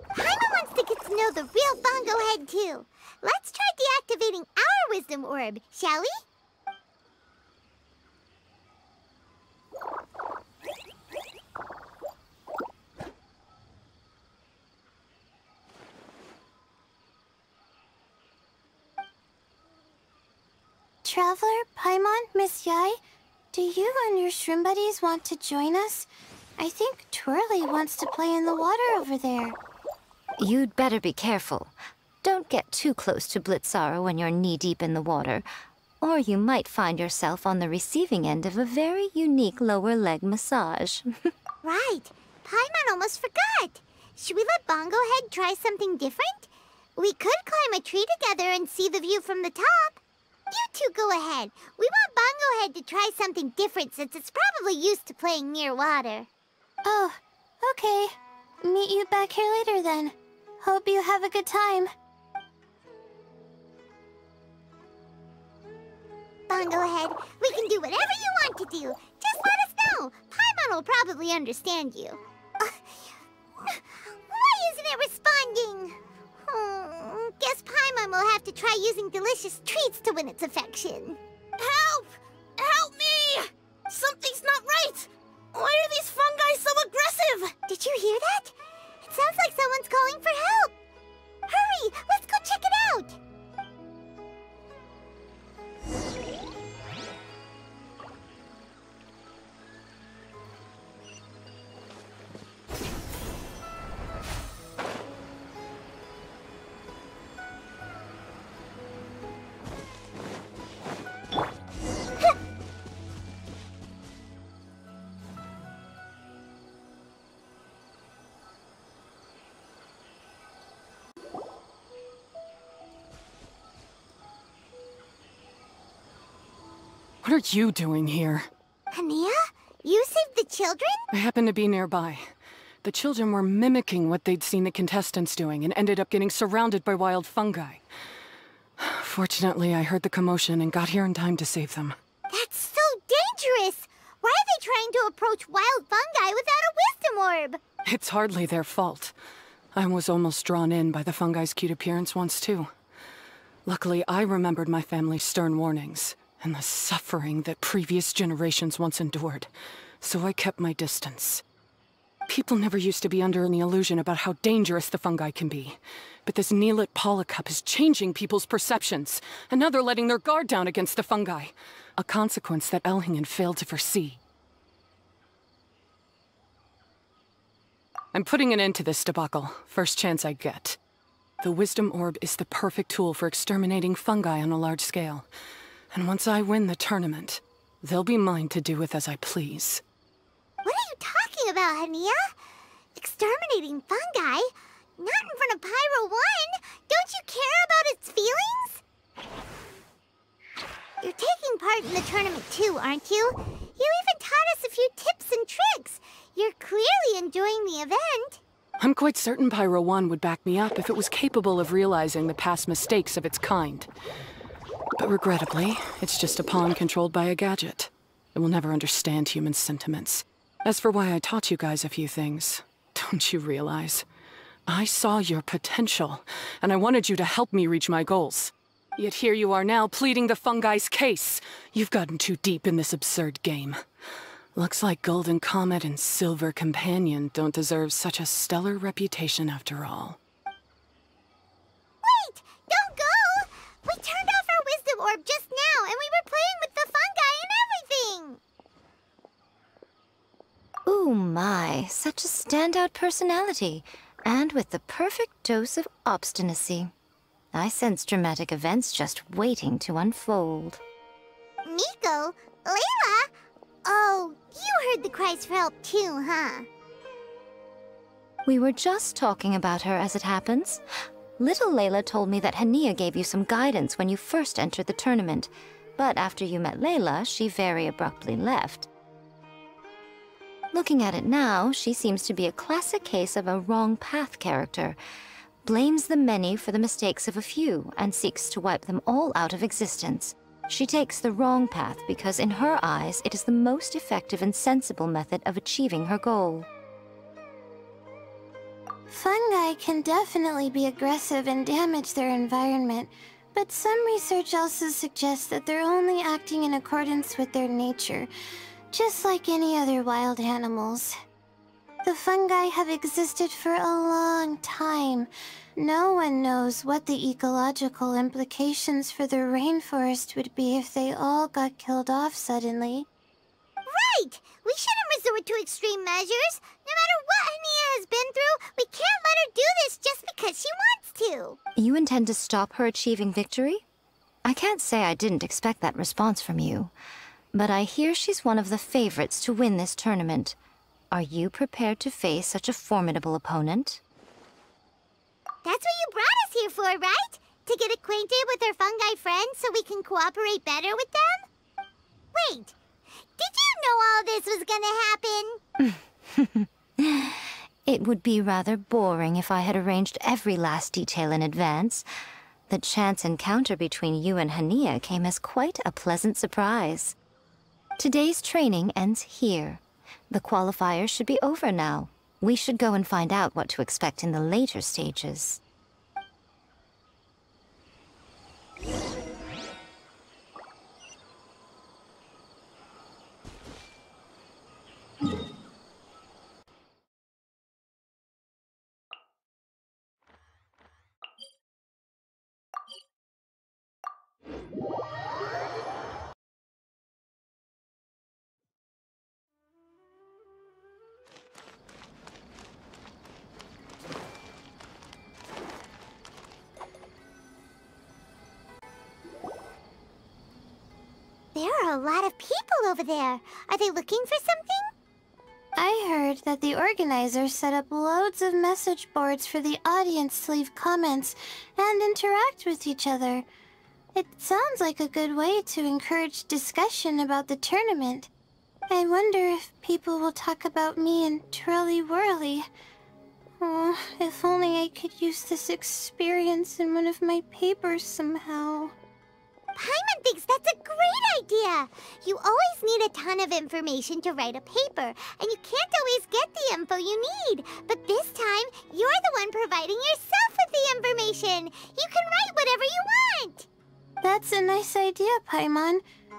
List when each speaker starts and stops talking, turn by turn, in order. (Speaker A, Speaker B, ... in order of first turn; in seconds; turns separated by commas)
Speaker A: 0.1-6.1, Speaker B: 21.0-23.0, Speaker B: 23.5-26.1, Speaker B: 26.6-29.6, Speaker C: 30.4-35.5, Speaker C: 36.0-41.1, Speaker A: 41.6-50.0, Speaker A: 50.5-56.3, Speaker B: 56.8-61.9, Speaker A: 66.5-73.0, Speaker A: 73.6-76.0, Speaker A: 76.5-81.2, Speaker D: 81.6-87.5, Speaker A: 87.7-88.5, Speaker A: 89.0-90.7, Speaker A: 91.5-93.2, Speaker E: 127.2-128.5, Speaker A: 128.9-131.0, Speaker E: 131.1-132.2, Speaker E: 132.8-137.8, Speaker E: 138.8-141.9, Speaker A: 142.3-147.6, Speaker E: 147.9-149.1, Speaker E: 149.7-152.7, Speaker E: 153.7-159.5, Speaker E: 160.0-161.4, Speaker E: 162.3-174.2, Speaker E: 178.1-180.8, Speaker E: 181.4-185.3, Speaker E: 185.9-189.8, Speaker A: 190.6-192.3, Speaker A: 192.9-198.8, Speaker A: 201.0-208.4, Speaker E: 208.8-213.9, Speaker E: 215.0-224.0, Speaker E: 224.7-233.8, Speaker E: 234.6-240.2, Speaker A: 242.0-248.4, Speaker C: 250.8-256.9, Speaker C: 257.5-260.8, Speaker A: 261.6-263.3, Speaker A: 263.8-266.7, Speaker C: 268.4-270.8, Speaker C: 271.4-278.9, Speaker C: 280.7-285.0, Speaker C: 285.6-296.7, Speaker B: 299.1-308.3, Speaker B: 308.9-311.1, Speaker B: 312.0-323.1, Speaker A: 323.9-331.6, Speaker C: 331.8-333.8, Speaker C: 334.4-336.9, Speaker C: 337.5-340.6, Speaker C: 341.1-344.0, Speaker A: 345.6-351.4, Speaker A: 352.3-352.7, Speaker A: 353.4-355.6, Speaker C: 355.8-362.0, Speaker C: 362.7-367.1, Speaker C: 368.0-375.6, Speaker A: 411.5-414.9, Speaker B: 415.8-423.4, Speaker B: 424.1-428.3, Speaker B: 428.9-432.7, Speaker B: 433.6-438.9, Speaker A: 439.8-453.7, Speaker B: 454.2-456.0